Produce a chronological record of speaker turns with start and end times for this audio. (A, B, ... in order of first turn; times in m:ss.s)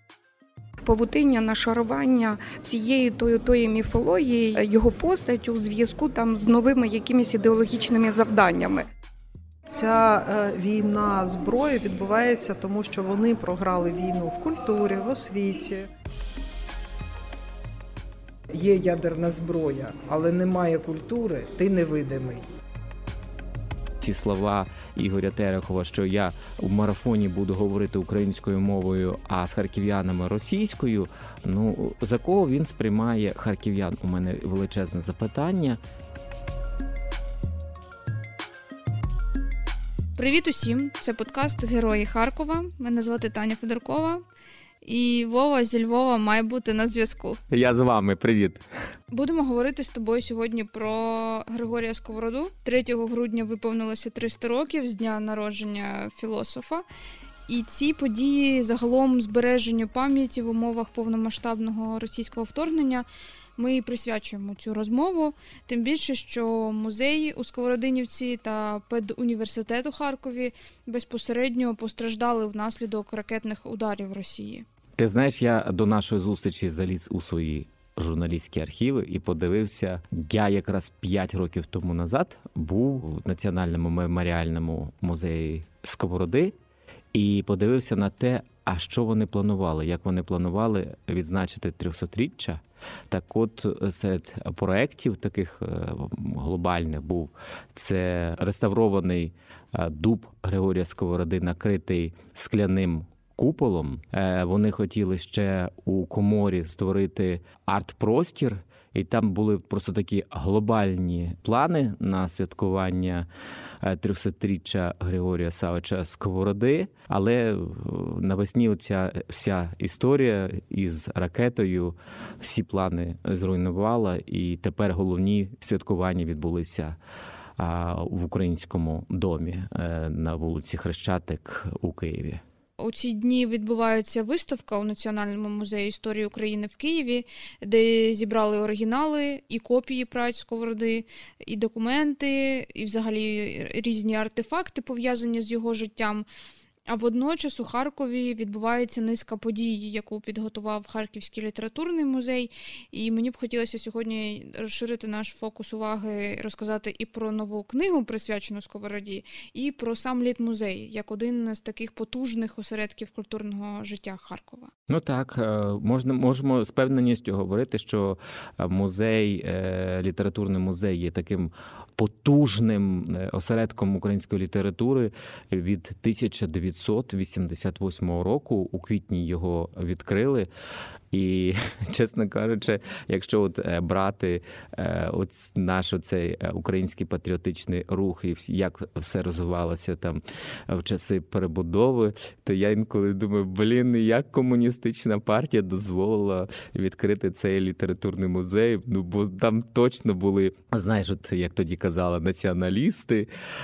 0:00.8-0:08.9 A
0:09.6-0:15.9 B
0:18.5-0:22.5 C
0:24.0-0:35.8 D
0:40.2-0:44.2 E
0:44.8-0:47.4 E
0:47.5-0:48.6 D
0:49.1-0:56.8 E
0:57.5-1:03.0 E
1:03.6-1:14.6 E
1:15.0-1:26.5 D
1:27.1-1:53.3 D
1:53.8-2:07.0 D
2:07.6-2:12.4 D
2:12.8-2:26.2 E
2:26.9-2:44.7 E
2:44.9-3:00.5 D
3:01.1-3:23.3 D